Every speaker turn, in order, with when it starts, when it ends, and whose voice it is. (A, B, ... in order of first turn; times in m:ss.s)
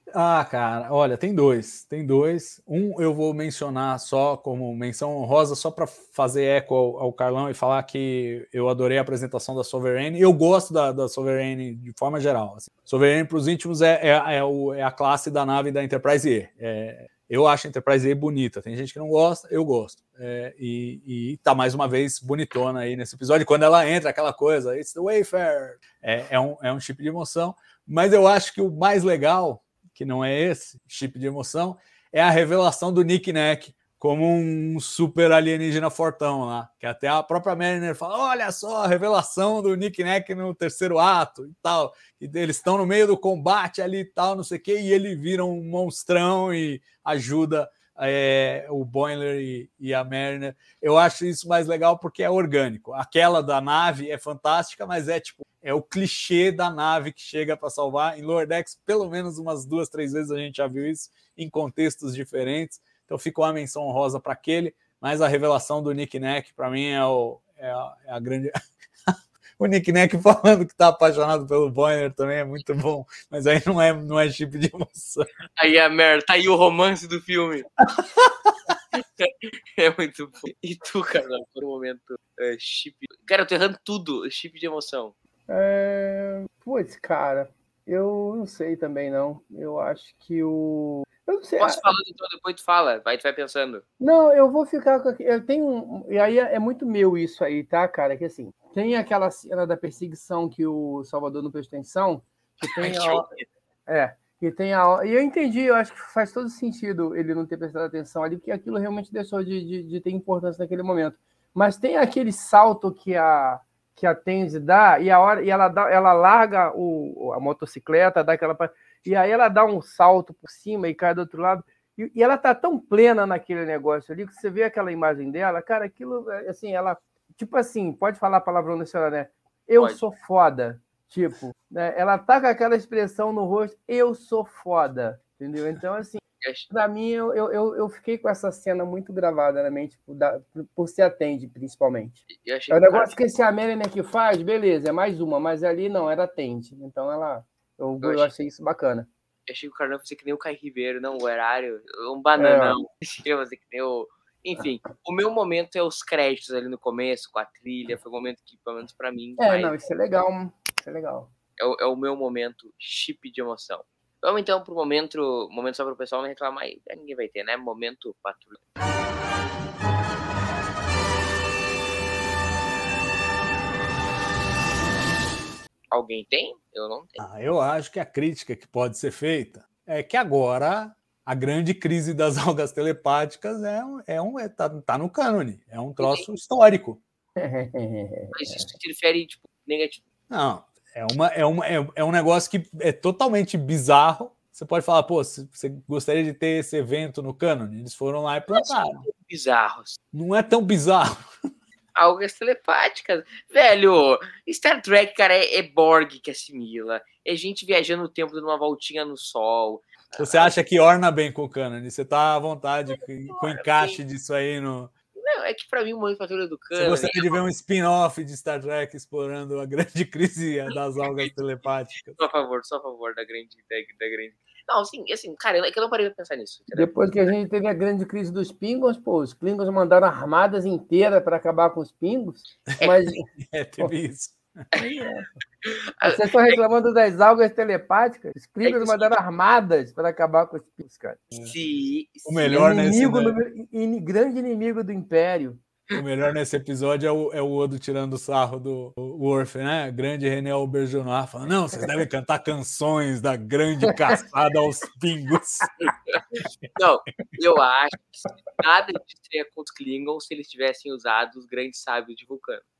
0:00.1-1:08.5 A
1:09.6-1:15.3 A
1:15.6-1:17.7 B
1:18.9-1:25.1 B
1:25.5-1:31.8 C
1:31.6-1:33.8 B
1:34.0-1:43.3 C
1:42.6-1:43.4 B
1:43.9-2:29.1 C
2:09.8-2:10.0 B
2:16.4-2:16.7 B
2:22.3-2:23.2 B
2:28.0-2:28.3 B
2:29.5-2:39.7 B
2:32.4-2:32.8 C
2:39.4-2:41.3 C
2:41.6-2:48.6 B
2:55.9-2:57.2 B
2:57.2-3:07.0 A
3:06.0-3:06.2 B
3:07.4-3:08.7 C
3:08.3-3:10.0 B
3:10.3-3:19.0 A
3:18.5-3:20.0 B
3:20.1-3:21.3 A
3:22.0-3:30.5 B
3:30.2-3:34.9 A
3:33.3-3:34.0 B
3:35.2-3:37.4 B
3:36.7-3:42.2 A
3:41.0-3:41.3 B
3:42.0-3:46.9 B
3:46.7-3:53.2 C
3:53.4-3:54.4 A
3:54.8-3:55.4 C
3:55.6-3:56.5 B
3:56.0-4:01.2 C
3:58.6-3:59.1 B
4:01.4-4:02.6 B
4:02.2-4:03.4 A
4:02.4-4:05.6 C
4:05.9-4:15.7 A
4:15.8-4:16.2 B
4:16.8-4:22.6 B